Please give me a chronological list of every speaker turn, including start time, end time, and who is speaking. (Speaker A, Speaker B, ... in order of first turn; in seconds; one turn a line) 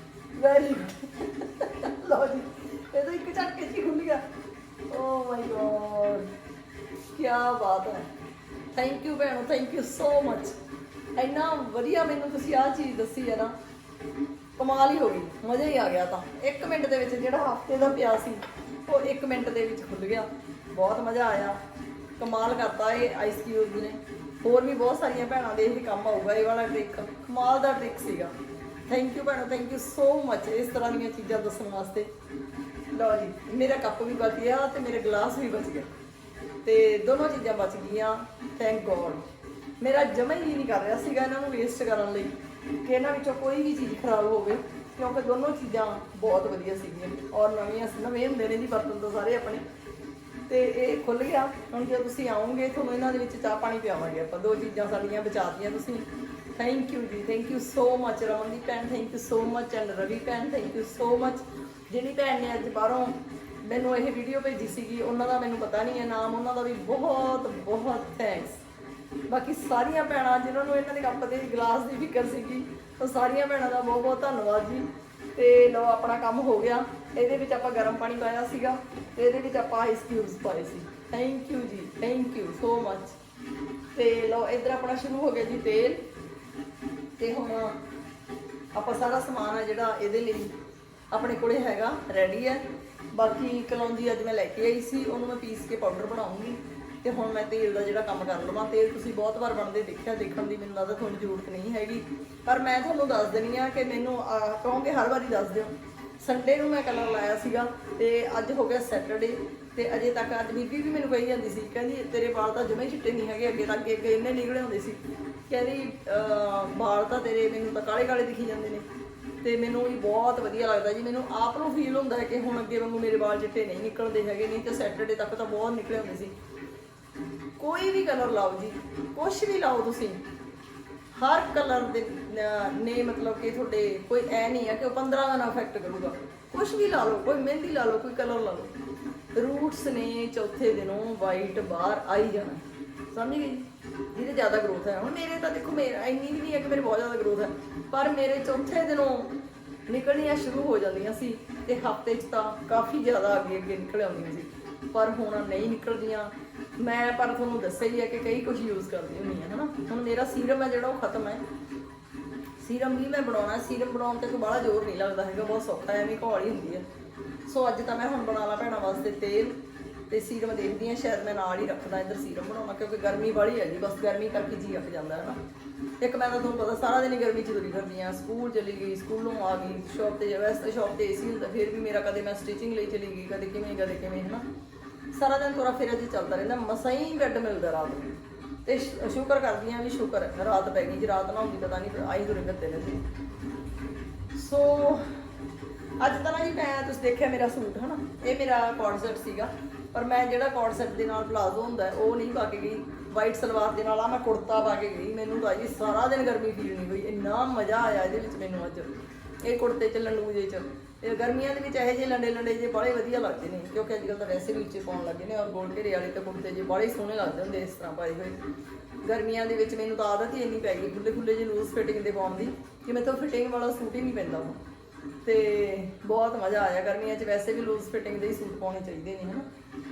Speaker A: 0.3-4.2
Speaker A: 4.9-6.3
Speaker A: 7.1-8.1
Speaker A: 8.7-10.6
Speaker A: 11.2-13.5
Speaker A: 14.6-21.6
Speaker A: 22.2-28.3
Speaker A: 28.9-32.1
Speaker A: 32.9-35.9
Speaker A: 36.6-39.2
Speaker A: 39.8-49.6
Speaker A: 50.5-68.6
Speaker A: 69.3-83.2
Speaker A: 83.9-86.0
Speaker A: 87.2-87.8
Speaker A: 88.7-90.5
Speaker A: 91.1-118.8
Speaker A: 119.4-126.3
Speaker A: 127.6-130.2
Speaker A: 131.1-138.7
Speaker A: 139.3-149.3
Speaker A: 149.9-161.4
Speaker A: 162.6-166.8
Speaker A: 167.4-169.6
Speaker A: 170.1-175.4
Speaker A: 176.0-184.4
Speaker A: 185.1-193.0
Speaker A: 194.3-195.1
Speaker A: 196.0-208.9
Speaker A: 209.4-218.4
Speaker A: 219.0-224.6
Speaker A: 225.2-229.5